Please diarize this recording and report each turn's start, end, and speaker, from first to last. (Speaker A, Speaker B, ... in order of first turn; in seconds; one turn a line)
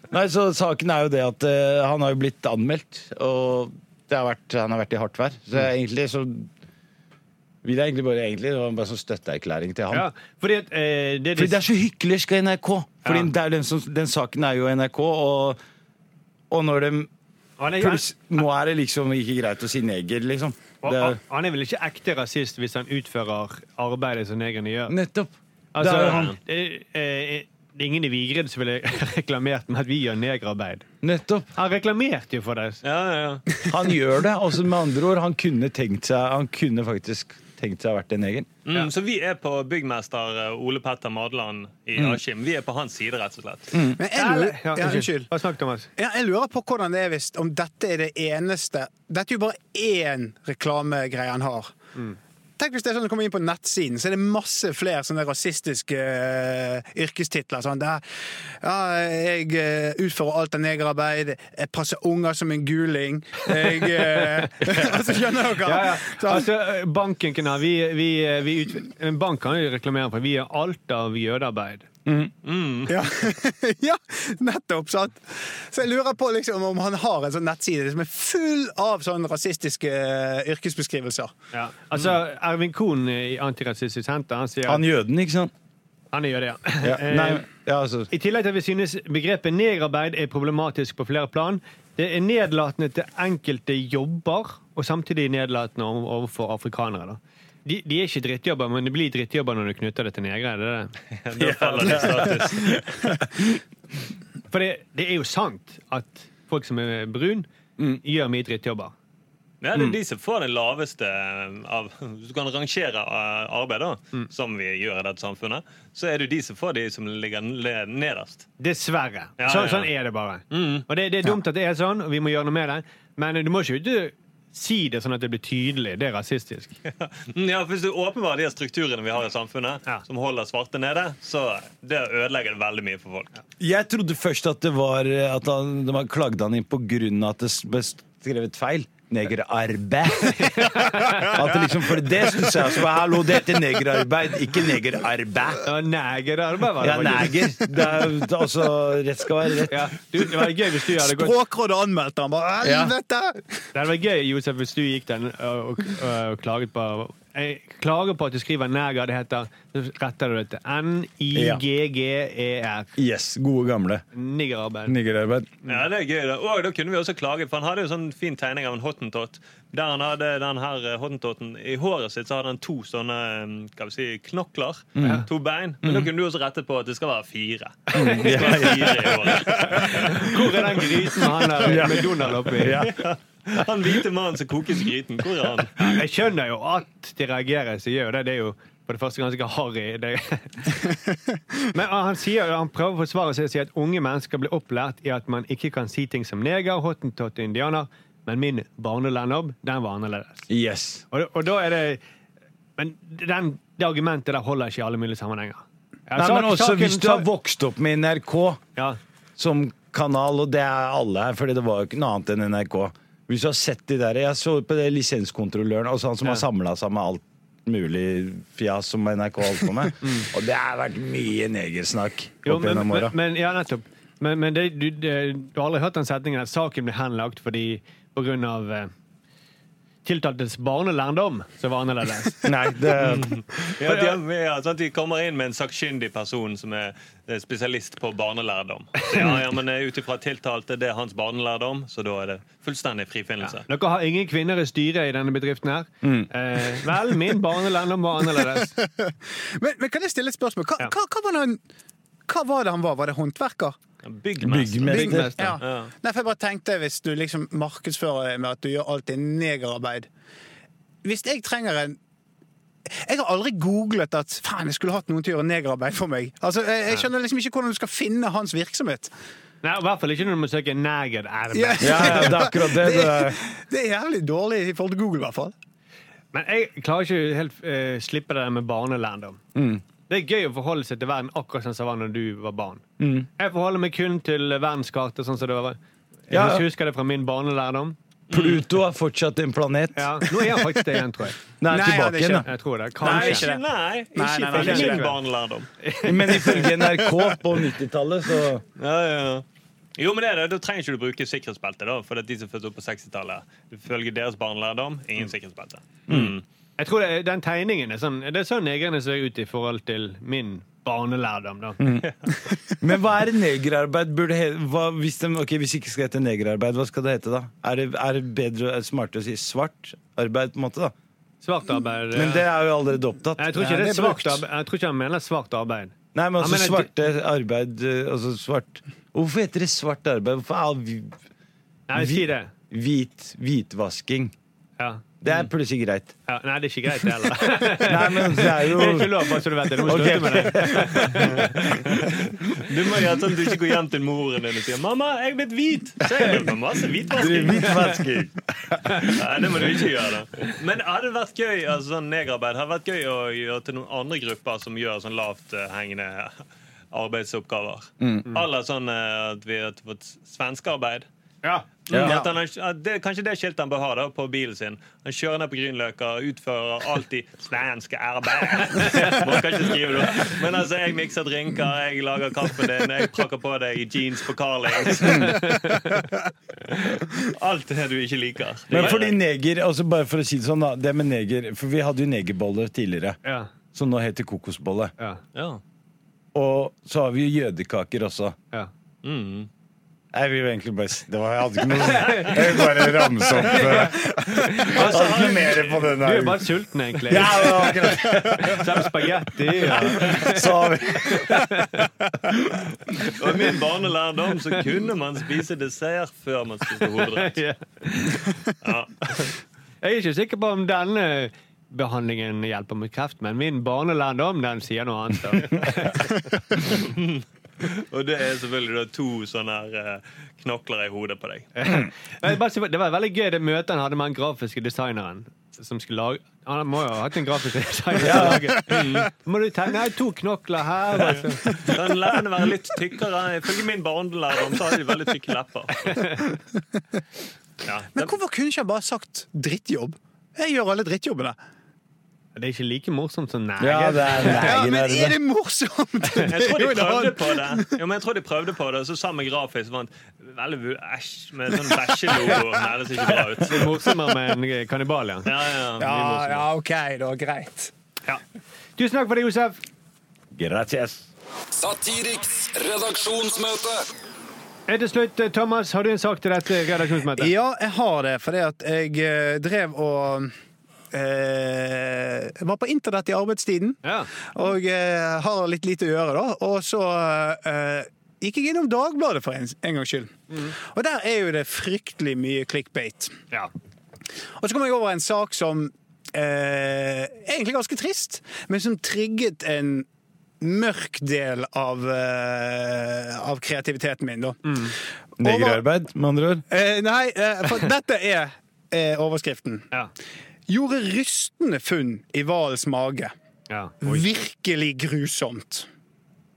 Speaker A: 0.1-6.5
Speaker A: 7.6-10.1
Speaker B: 9.9-11.6
Speaker A: 11.3-15.6
Speaker B: 13.0-13.3
Speaker A: 16.5-17.1
Speaker B: 17.6-18.4
Speaker A: 17.8-21.2
Speaker B: 20.8-25.0
Speaker A: 24.9-26.3
Speaker B: 25.7-30.9
Speaker C: 25.9-26.3
Speaker A: 31.0-31.5
Speaker B: 31.5-32.8
Speaker C: 32.8-33.7
Speaker A: 33.7-38.5
Speaker C: 38.6-43.7
Speaker A: 43.7-44.0
Speaker D: 44.0-45.3
Speaker B: 44.1-45.9
Speaker D: 46.0-51.7
Speaker D: 52.6-66.5
Speaker B: 63.8-64.8
Speaker B: 65.6-71.9
Speaker A: 72.0-72.3
Speaker C: 72.4-73.0
Speaker D: 72.9-81.3
Speaker B: 81.5-84.9
Speaker A: 84.6-85.5
Speaker B: 86.1-87.5
Speaker A: 86.8-88.1
Speaker B: 88.1-102.4
Speaker C: 101.2-103.0
Speaker A: 101.8-102.7
Speaker B: 104.5-107.5
Speaker B: 108.0-108.9
Speaker C: 109.6-118.5
Speaker B: 118.6-126.7
Speaker C: 119.4-119.9
Speaker C: 120.5-120.8
Speaker C: 126.9-133.3
Speaker A: 133.6-145.7
Speaker B: 140.3-141.4
Speaker B: 145.6-147.7
Speaker A: 146.8-150.2
Speaker B: 149.7-151.4
Speaker D: 150.9-153.7
Speaker A: 152.6-152.9
Speaker B: 153.7-162.9
Speaker A: 161.3-161.6
Speaker A: 163.0-164.0
Speaker B: 164.1-164.9
Speaker A: 164.8-165.5
Speaker C: 165.7-180.3
Speaker A: 174.9-175.3
Speaker B: 175.0-175.3
Speaker A: 175.8-176.1
Speaker A: 177.9-180.5
Speaker B: 178.0-182.9
Speaker A: 181.6-183.0
Speaker C: 182.8-185.8
Speaker B: 185.8-190.9
Speaker B: 191.7-200.5
Speaker A: 200.5-201.0
Speaker B: 201.1-202.0
Speaker B: 202.8-207.3
Speaker A: 206.1-208.6
Speaker A: 209.4-223.2
Speaker B: 220.0-220.3
Speaker B: 222.4-228.9
Speaker B: 230.0-232.5
Speaker A: 232.4-233.4
Speaker C: 233.0-243.7
Speaker B: 233.8-234.1
Speaker B: 239.1-239.4
Speaker B: 243.4-248.7
Speaker A: 246.0-246.9
Speaker D: 248.5-251.6
Speaker D: 252.3-253.8
Speaker C: 254.0-255.9
Speaker A: 254.4-255.6
Speaker B: 254.9-255.5
Speaker D: 254.9-260.1
Speaker D: 261.0-262.0
Speaker D: 262.9-269.1
Speaker B: 269.6-272.5
Speaker D: 271.5-275.5
Speaker A: 271.8-273.4
Speaker B: 276.3-279.4
Speaker A: 279.5-279.8
Speaker B: 280.1-282.9
Speaker A: 283.0-283.3
Speaker B: 283.4-285.8
Speaker B: 286.3-287.9
Speaker A: 286.3-286.7
Speaker C: 288.3-288.6
Speaker A: 288.3-290.7
Speaker B: 289.9-291.4
Speaker A: 291.6-292.5
Speaker D: 291.7-292.5
Speaker B: 292.4-293.5
Speaker C: 293.0-295.7
Speaker D: 293.0-295.1
Speaker B: 294.5-295.2
Speaker B: 295.8-297.1
Speaker A: 296.0-298.6
Speaker C: 298.8-299.4
Speaker C: 300.0-306.4
Speaker A: 306.1-306.3
Speaker B: 306.8-311.8
Speaker A: 311.8-312.1
Speaker C: 312.1-312.5
Speaker A: 312.8-320.9
Speaker B: 321.4-322.5
Speaker A: 322.1-324.4
Speaker B: 323.4-326.9
Speaker A: 326.1-331.1
Speaker B: 331.9-332.5
Speaker A: 331.9-334.3
Speaker B: 334.8-335.5
Speaker A: 335.2-336.1
Speaker B: 336.2-341.9
Speaker A: 337.7-342.1
Speaker C: 342.0-348.0
Speaker A: 346.0-346.5
Speaker A: 347.1-349.7
Speaker B: 347.6-348.0
Speaker C: 349.0-356.4
Speaker C: 356.9-361.1
Speaker A: 358.0-358.3
Speaker B: 361.4-362.3
Speaker C: 361.9-375.7
Speaker A: 361.9-362.2
Speaker B: 368.8-369.2
Speaker B: 374.9-376.0
Speaker C: 377.2-379.2
Speaker A: 378.7-383.2
Speaker B: 378.7-379.0
Speaker B: 383.2-383.5
Speaker A: 383.7-384.9
Speaker C: 385.3-385.6
Speaker A: 386.3-388.4
Speaker C: 389.0-389.5
Speaker A: 390.1-401.6
Speaker B: 391.9-392.6
Speaker B: 393.4-401.9
Speaker C: 394.5-395.9
Speaker A: 402.3-402.6
Speaker C: 403.1-407.4
Speaker B: 407.1-408.4
Speaker C: 408.6-409.3
Speaker B: 409.8-416.2
Speaker C: 416.6-421.5
Speaker B: 421.6-431.7
Speaker A: 428.0-428.6
Speaker C: 428.6-429.1
Speaker C: 431.1-436.1
Speaker B: 435.9-436.2
Speaker C: 437.6-438.1
Speaker D: 437.9-441.4
Speaker B: 442.4-444.6
Speaker A: 443.6-445.2
Speaker D: 444.2-447.7
Speaker C: 446.2-453.6
Speaker B: 453.4-455.3
Speaker C: 455.2-456.4
Speaker D: 455.8-457.7
Speaker B: 458.8-459.6
Speaker A: 460.3-461.1
Speaker E: 461.6-463.9
Speaker B: 464.7-467.3
Speaker D: 467.2-470.3
Speaker D: 470.9-483.1
Speaker B: 473.8-474.1
Speaker D: 484.4-489.9
Speaker D: 490.4-495.6
Speaker B: 494.4-494.7
Speaker A: 495.2-496.4
Speaker D: 496.5-499.7
Speaker D: 500.5-503.1
Speaker B: 503.5-504.0
Speaker D: 503.8-505.7